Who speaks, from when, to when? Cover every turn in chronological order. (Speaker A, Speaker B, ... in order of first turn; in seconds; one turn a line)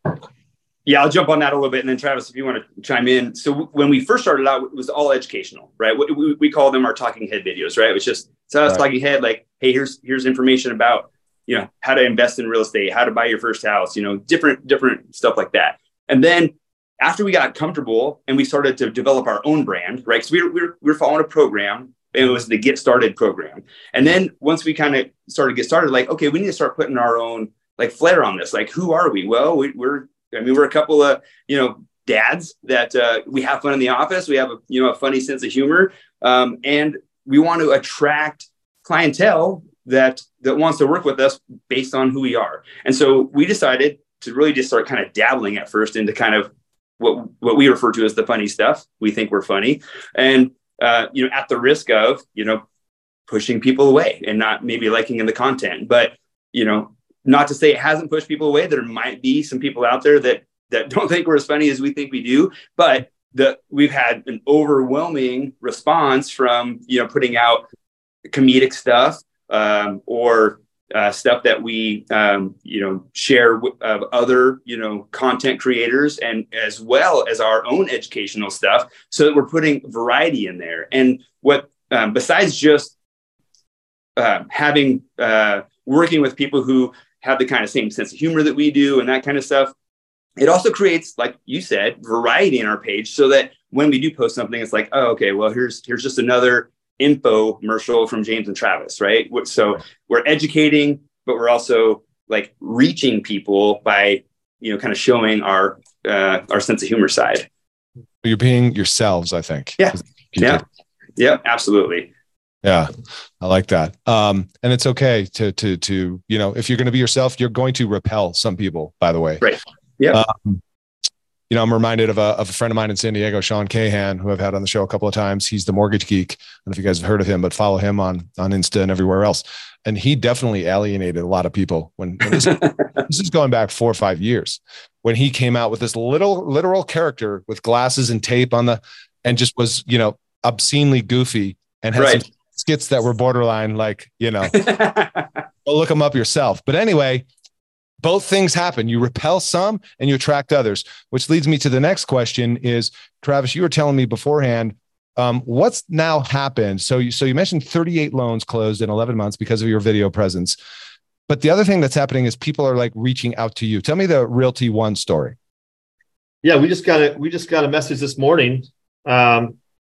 Speaker A: 0.9-52.6
Speaker A: 53.3-67.7
Speaker A: 68.3-82.9
Speaker A: 84.2-89.7
Speaker A: 90.4-107.5
Speaker B: 108.2-110.6
Speaker A: 109.8-110.6
Speaker A: 111.2-112.1
Speaker B: 112.6-119.5
Speaker A: 119.4-120.2
Speaker B: 120.1-120.6
Speaker B: 121.5-144.6
Speaker A: 132.4-132.7
Speaker A: 142.0-142.2
Speaker A: 144.5-145.4
Speaker B: 145.7-147.3
Speaker B: 148.0-160.6
Speaker B: 161.3-165.4
Speaker C: 166.4-169.6